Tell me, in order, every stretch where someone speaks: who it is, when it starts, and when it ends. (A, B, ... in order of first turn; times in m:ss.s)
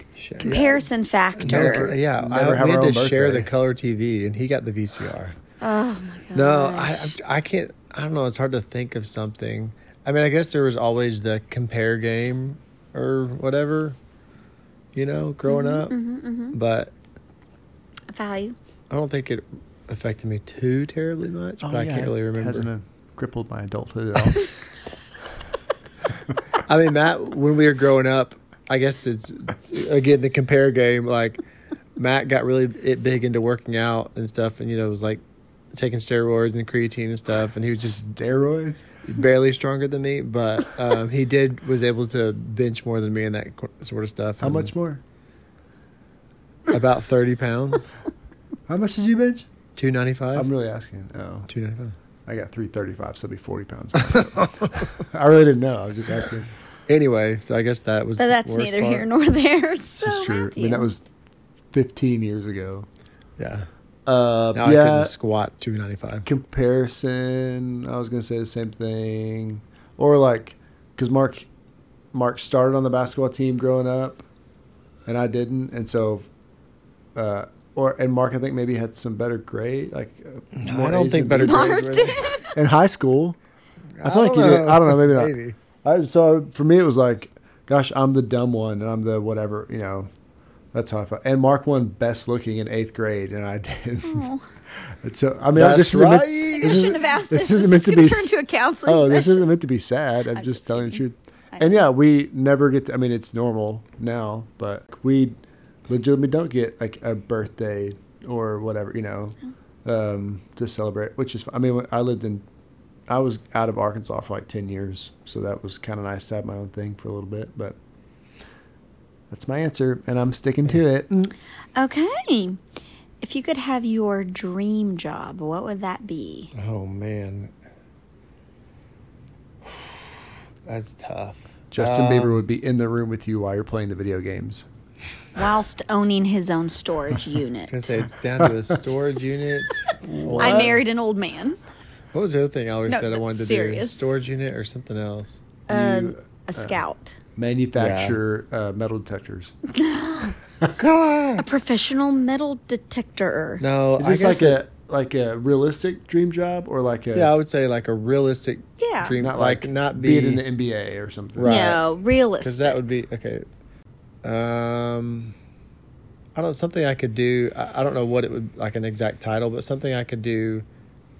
0:00.2-0:00.8 A
0:00.4-0:01.9 B
0:01.4-0:05.4 A
0:01.4-0:03.5 C
0:05.6-0:07.1 B
0:06.3-0:14.0 A
0:14.9-0:16.0 A
0:15.4-0:16.6 B
0:16.5-0:16.9 A
0:18.1-0:18.6 B
0:18.9-0:22.7 A
0:21.6-0:24.5 C
0:26.6-0:31.4 A
0:32.0-0:35.2 A
0:35.7-0:38.0 A
0:37.7-0:38.8 C
0:39.0-0:44.7 A
0:44.4-0:45.0 C
0:46.7-0:47.9 A
0:48.7-0:49.5 C
0:49.8-0:50.5 A
0:50.3-0:51.5 C
0:51.5-0:51.9 A
0:52.2-0:56.5 C
0:54.4-0:54.7 A
0:56.9-0:59.0 A
0:58.2-1:00.9 B
1:00.0-1:01.0 C
1:01.7-1:02.9 C
1:03.4-1:03.7 A
1:04.0-1:05.1 C
1:04.5-1:06.2 A
1:06.2-1:11.5 C
1:12.1-1:14.2 C
1:15.0-1:16.3 C
1:17.1-1:23.4 C
1:20.6-1:22.2 A
1:21.4-1:22.6 B
1:24.0-1:25.6 A
1:24.0-1:30.1 C
1:30.7-1:38.3 C
1:34.0-1:34.4 B
1:35.5-1:37.0 A
1:36.5-1:39.5 B
1:38.8-1:45.4 C
1:40.3-1:41.8 B
1:45.9-1:52.4 C
1:53.1-1:57.8 C
1:59.3-2:01.3 C
2:01.8-2:02.6 B
2:03.2-2:06.5 B
2:06.5-2:07.5 A
2:09.7-2:10.0 A
2:10.6-2:12.4 A
2:11.7-2:14.7 C
2:15.4-2:17.9 B
2:17.7-2:20.8 A
2:20.0-2:20.8 C
2:20.4-2:21.6 B
2:22.1-2:25.4 A
2:22.9-2:24.1 B
2:25.7-2:27.2 B
2:25.7-2:26.8 C
2:27.4-2:29.5 C
2:27.8-2:28.2 A
2:29.7-2:30.3 B
2:30.8-2:31.4 A
2:31.4-2:33.6 B
2:33.6-2:34.6 A
2:34.0-2:37.3 C
2:37.1-2:40.4 A
2:38.8-2:39.2 B
2:39.1-2:41.6 C
2:41.4-2:41.8 A
2:41.4-2:42.8 B
2:42.4-2:43.4 A
2:44.2-2:45.3 A
2:46.3-2:50.6 A